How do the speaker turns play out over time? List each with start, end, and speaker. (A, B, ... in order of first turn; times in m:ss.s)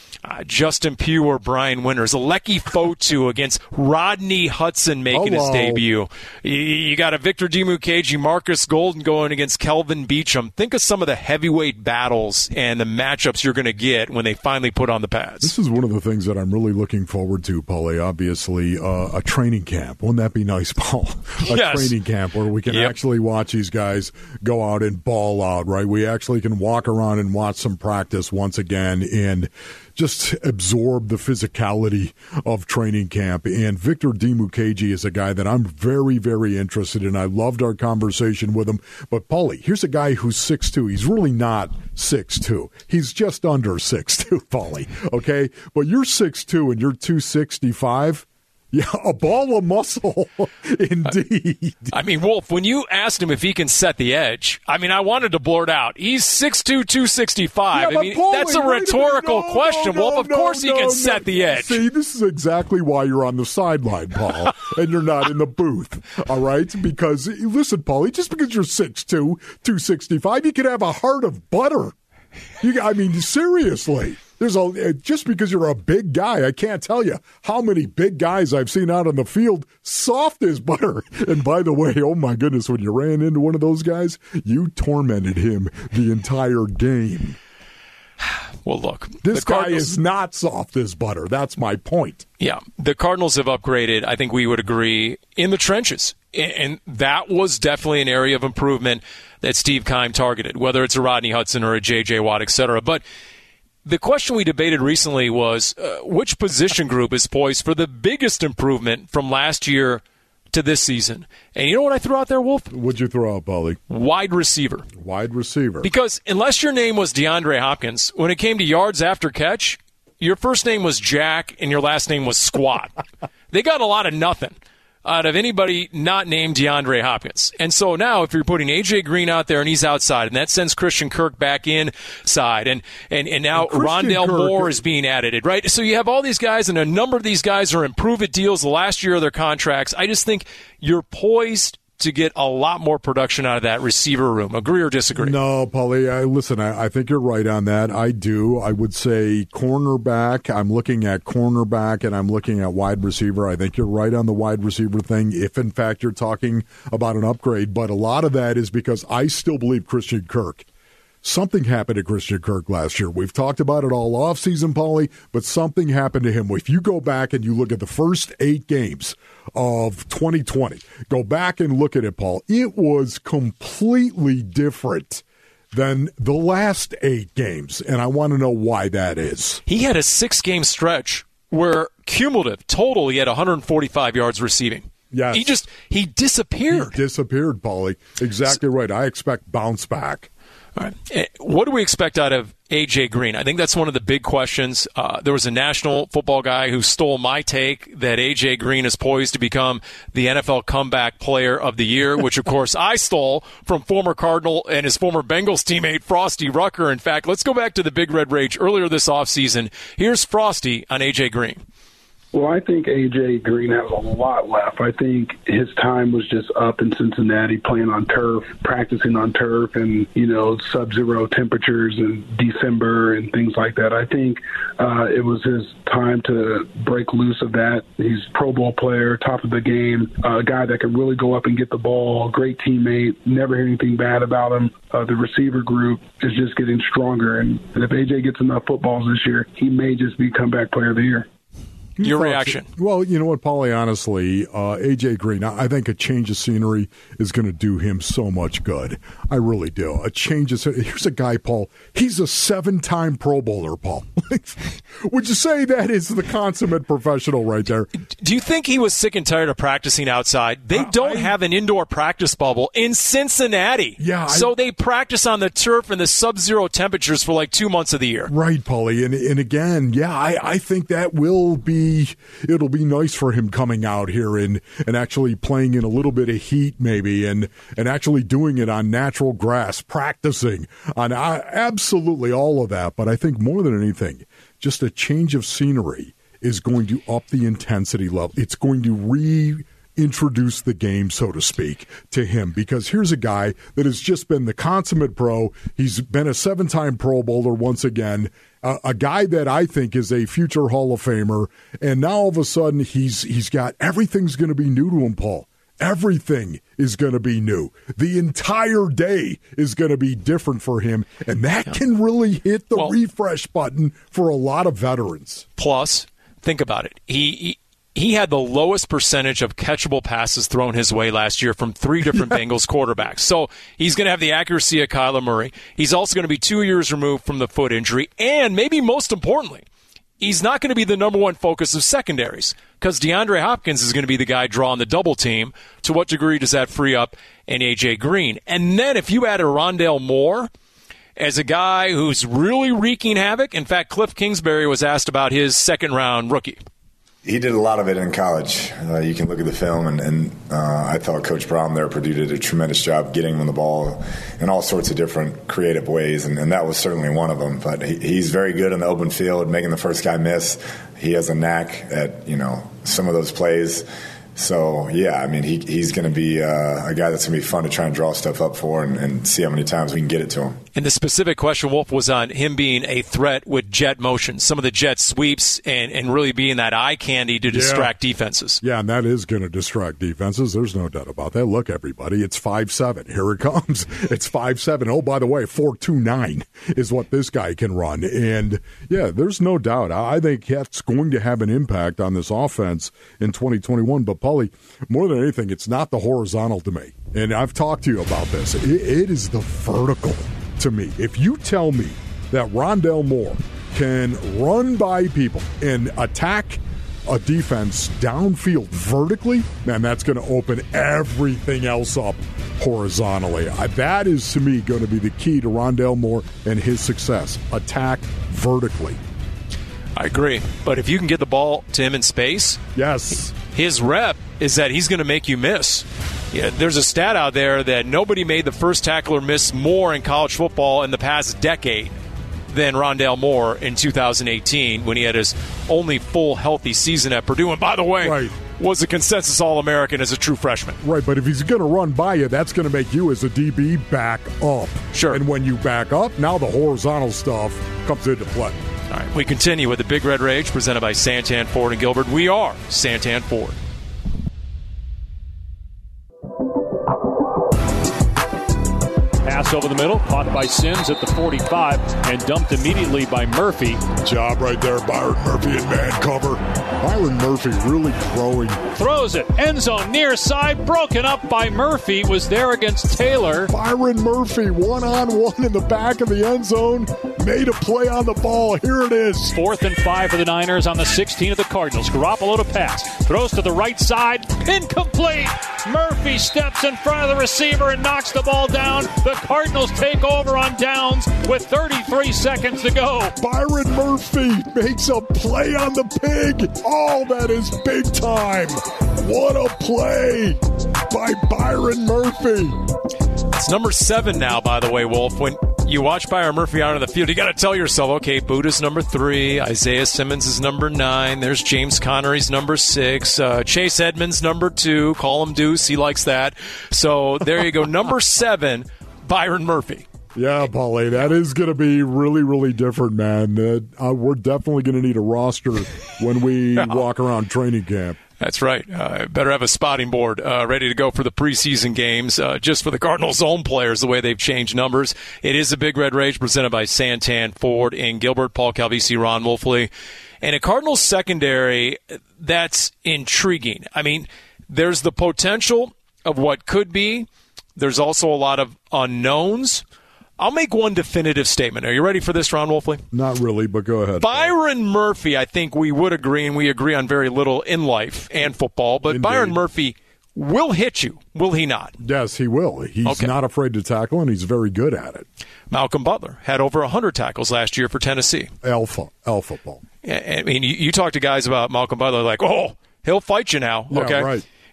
0:00.2-0:15.5 A
0:05.1-0:05.8 B
0:15.4-0:51.9 B
0:21.4-0:22.0 A
0:51.9-1:01.8 A
0:57.7-1:12.0 B
1:12.6-1:27.4 B
1:28.6-1:30.0 A
1:29.2-1:32.3 B
1:32.4-1:43.0 A
1:43.8-1:52.7 A
1:52.7-1:53.8 B
1:53.9-1:54.9 A
1:55.0-1:55.9 B
1:55.8-2:02.9 A
2:03.5-2:25.4 A
2:13.5-2:14.8 B
2:25.2-2:40.7 B
2:41.2-2:59.6 B
2:59.7-3:07.0 A
3:05.1-3:05.6 B
3:06.7-3:10.3 B
3:10.8-3:31.6 A
3:32.3-4:01.3 C
4:02.0-4:17.9 B
4:02.0-4:02.7 A
4:18.1-4:28.3 A
4:20.7-4:21.3 B
4:24.0-4:24.5 B
4:28.3-5:15.5 B
5:15.6-5:29.6 A
5:30.2-5:40.5 A
5:41.2-5:46.6 A
5:47.2-6:10.6 D
6:10.8-6:18.6 A
6:17.5-6:17.9 B
6:18.6-6:59.0 B
7:00.0-7:02.6 A
7:02.8-7:03.4 B
7:03.4-7:12.0 A
7:12.5-7:20.8 A
7:18.0-7:18.3 B
7:20.8-7:28.6 B
7:24.9-7:25.2 A
7:28.9-7:33.6 A
7:39.2-7:43.8 E
7:44.0-7:48.6 B
7:48.7-7:53.5 E
7:53.5-7:59.4 B
7:59.3-8:13.1 E
8:13.2-8:22.6 B
8:23.3-8:39.9 A
8:40.2-8:48.0 B
8:48.2-8:59.7 A
9:00.2-9:09.6 A
9:10.2-9:12.8 A
9:12.9-9:14.3 B
9:14.0-9:21.8 A
9:18.9-9:19.4 B
9:21.8-9:25.1 B
9:22.9-9:23.1 A
9:25.5-9:28.3 A
9:28.4-9:29.6 B
9:29.8-9:34.1 A
9:33.7-9:34.2 B